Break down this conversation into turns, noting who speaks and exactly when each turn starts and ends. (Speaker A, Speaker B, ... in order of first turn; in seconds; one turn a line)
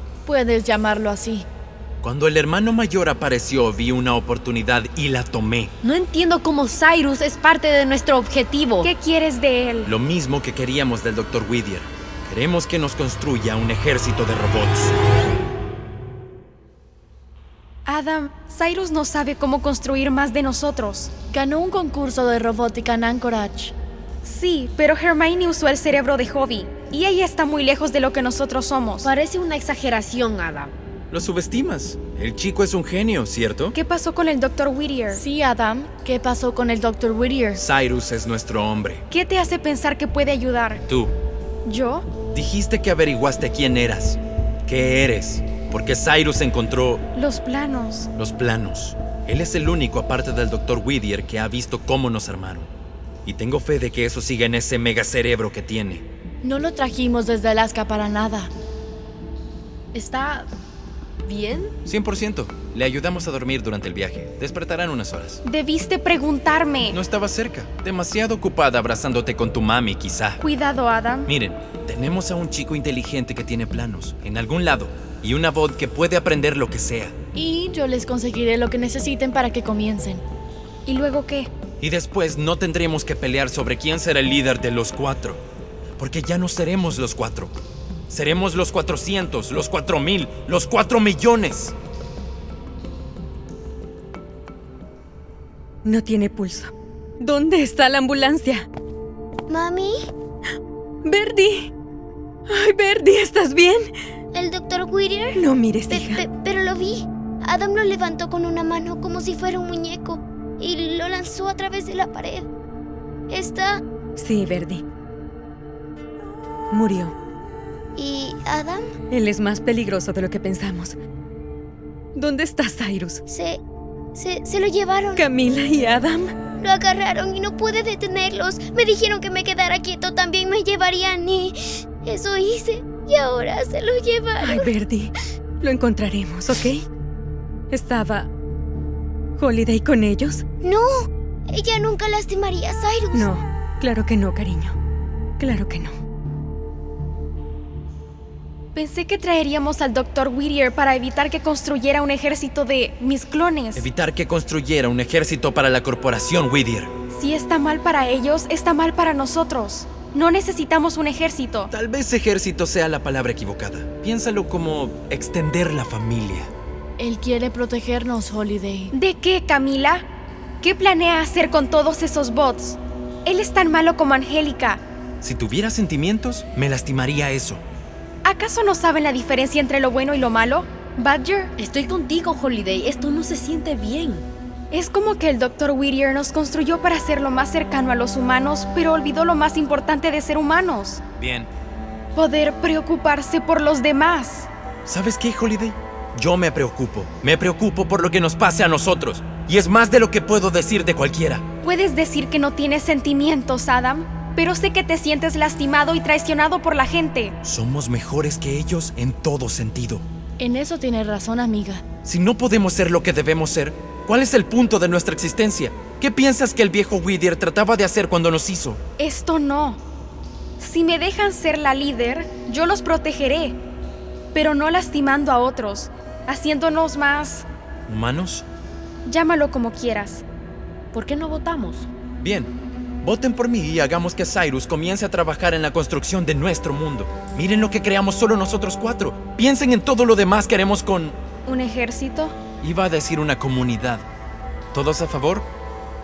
Speaker A: 0.3-1.5
Speaker B: 2.0-5.7
Speaker C: 5.8-8.9
Speaker D: 8.8-9.9
Speaker B: 9.9-14.9
Speaker D: 17.9-21.1
Speaker A: 21.3-23.7
Speaker D: 24.2-29.1
Speaker C: 29.0-30.7
Speaker B: 31.1-33.8
Speaker D: 33.7-35.2
Speaker A: 35.1-37.6
Speaker B: 37.6-39.0
Speaker D: 39.1-40.8
Speaker B: 40.9-41.1
Speaker D: 41.6-42.1
Speaker B: 42.3-47.0
Speaker D: 47.1-48.1
Speaker B: 48.1-52.7
Speaker B: 53.2-56.0
Speaker A: 56.4-58.5
Speaker A: 59.9-60.5
Speaker A: 61.3-61.7
Speaker B: 61.9-65.4
Speaker D: 65.4-67.0
Speaker B: 66.9-70.4
Speaker D: 70.4-71.3
Speaker B: 71.3-77.1
Speaker A: 77.3-80.2
Speaker D: 80.9-81.5
Speaker B: 81.8-85.4
Speaker B: 86.0-87.5
Speaker B: 88.1-91.7
Speaker E: 95.8-98.7
Speaker F: 99.5-100.0
Speaker E: 101.0-101.7
Speaker E: 102.5-103.9
Speaker F: 104.3-105.4
Speaker E: 105.3-106.3
Speaker F: 105.9-112.5
Speaker F: 113.3-113.8
Speaker E: 114.2-114.8
Speaker E: 116.7-117.2
Speaker F: 118.0-118.9
Speaker E: 119.1-121.0
Speaker E: 122.2-123.2
Speaker F: 123.3-123.6
Speaker F: 124.1-125.2
Speaker E: 125.2-126.3
Speaker F: 126.6-134.7
Speaker E: 134.4-136.8
Speaker E: 137.7-138.3
Speaker E: 139.4-140.4
Speaker F: 140.6-143.2
Speaker E: 143.1-144.8
Speaker E: 145.4-145.9
Speaker D: 148.8-153.9
Speaker B: 153.8-156.9
Speaker D: 157.1-161.7
Speaker B: 161.7-166.5
Speaker A: 167.0-168.9
Speaker D: 168.9-170.1
Speaker D: 170.6-174.8
Speaker B: 175.2-177.6
Speaker D: 178.2-181.5
Speaker C: 181.6-184.3
Speaker D: 184.7-191.0
Speaker B: 191.2-191.5
Speaker D: 192.2-194.5
Speaker B: 194.9-201.4
Speaker D: 201.6-207.4
Speaker B: 207.4-210.0
Speaker A: 210.4-211.8
Speaker B: 212.0-218.8
Speaker D: 219.0-219.8
Speaker D: 220.6-223.6
Speaker D: 224.3-227.5
Speaker B: 227.9-228.5
Speaker D: 229.1-230.2
Speaker C: 230.9-231.9
Speaker B: 232.2-241.2
Speaker D: 241.5-242.3
Speaker B: 242.6-244.1
Speaker B: 244.7-245.5